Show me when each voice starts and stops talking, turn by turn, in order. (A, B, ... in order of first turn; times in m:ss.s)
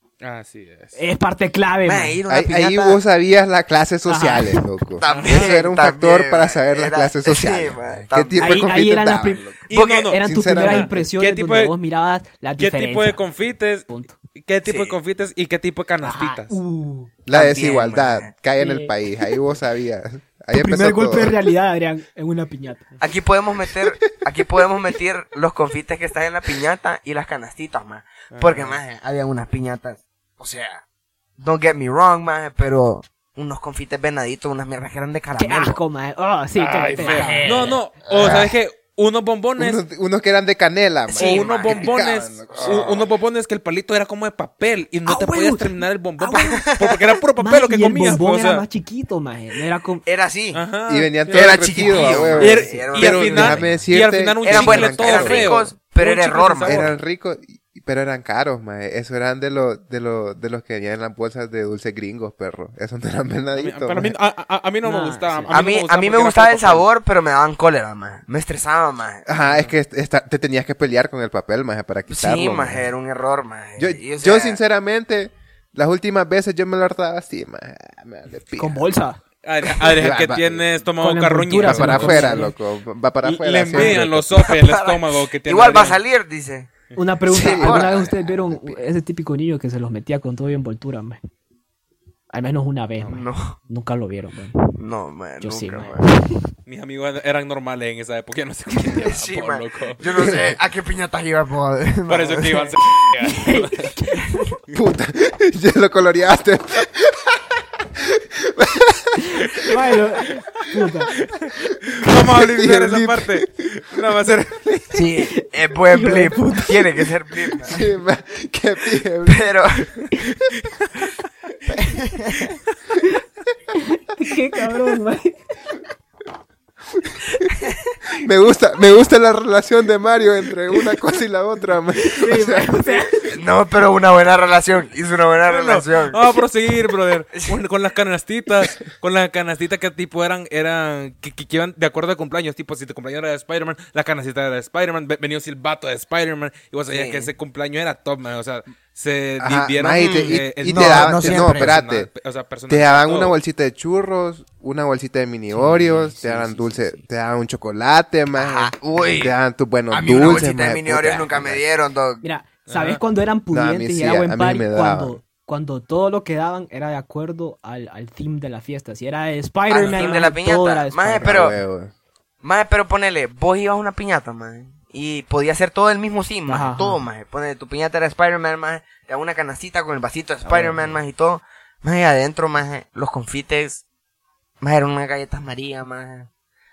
0:00.2-0:01.0 A
0:01.0-0:02.2 B
0:01.8-0:03.0 C
0:02.3-0:09.6 D
0:04.1-0:04.6 B
0:05.0-0:08.8 C
0:05.1-0:05.5 A
0:08.4-0:09.5 B
0:09.7-0:11.7 A
0:09.7-0:10.1 C
0:10.1-0:13.2 B
0:10.2-0:11.0 D
0:12.6-0:16.6 A
0:13.9-0:14.1 B
0:14.6-0:15.0 C
0:16.0-0:17.1 B
0:17.2-0:21.4 D
0:17.3-0:18.3 C
0:18.6-0:18.9 B
0:20.5-0:22.8 B
0:23.0-0:30.8 C
0:28.3-0:28.8 A
0:31.4-0:35.8 C
0:35.4-0:37.8 B
0:36.6-0:39.8 A
0:37.0-0:38.4 C
0:38.1-0:38.5 D
0:39.6-0:43.1 D
0:41.1-0:42.0 C
0:41.2-0:48.6 A
0:42.5-0:42.9 C
0:45.1-0:46.7 B
0:47.4-0:50.0 B
0:50.0-0:50.6 C
0:50.5-0:56.9 A
0:50.9-0:55.7 D
0:51.3-0:53.8 C
0:54.4-0:56.9 C
0:56.6-1:04.1 D
1:03.5-1:06.9 A
1:04.8-1:05.6 B
1:05.5-1:09.3 C
1:09.3-1:12.9 D
1:12.1-1:14.6 C
1:13.8-1:18.9 D
1:18.6-1:19.2 B
1:19.4-1:22.5 A
1:19.9-1:20.8 D
1:21.0-1:22.5 B
1:21.6-1:24.3 D
1:23.2-1:26.0 A
1:23.8-1:24.0 B
1:24.3-1:26.7 C
1:27.0-1:31.2 B
1:27.3-1:28.8 D
1:27.3-1:27.9 C
1:32.3-1:34.7 B
1:33.0-1:33.6 C
1:34.8-1:36.0 C
1:35.4-1:36.4 B
1:36.7-1:40.3 A
1:39.0-1:42.8 C
1:42.1-1:44.0 A
1:43.2-1:44.4 B
1:44.7-1:47.4 D
1:48.0-1:49.8 D
1:49.5-1:51.1 B
1:51.2-1:55.1 A
1:51.9-1:54.2 D
1:54.9-1:57.8 C
1:55.2-1:57.0 B
1:57.7-1:59.5 D
1:59.3-1:59.9 C
2:01.7-2:02.6 C
2:03.9-2:05.4 B
2:07.0-2:07.4 D
2:07.5-2:07.9 C
2:08.2-2:13.2 D
2:12.0-2:13.2 B
2:13.3-2:16.2 C
2:15.5-2:33.4 A
2:26.9-2:27.3 C
2:29.4-2:32.1 D
2:30.0-2:31.8 C
2:32.7-2:41.6 D
2:35.5-2:37.0 B
2:38.3-2:39.4 C
2:39.9-2:42.2 C
2:42.2-2:51.4 B
2:42.7-2:43.0 A
2:43.5-2:45.2 D
2:49.7-2:51.6 C
2:49.8-2:50.2 A
2:51.2-2:51.9 D
2:52.4-3:03.8 C
2:56.5-2:57.0 B
3:00.5-3:00.8 B
3:04.6-3:06.3 C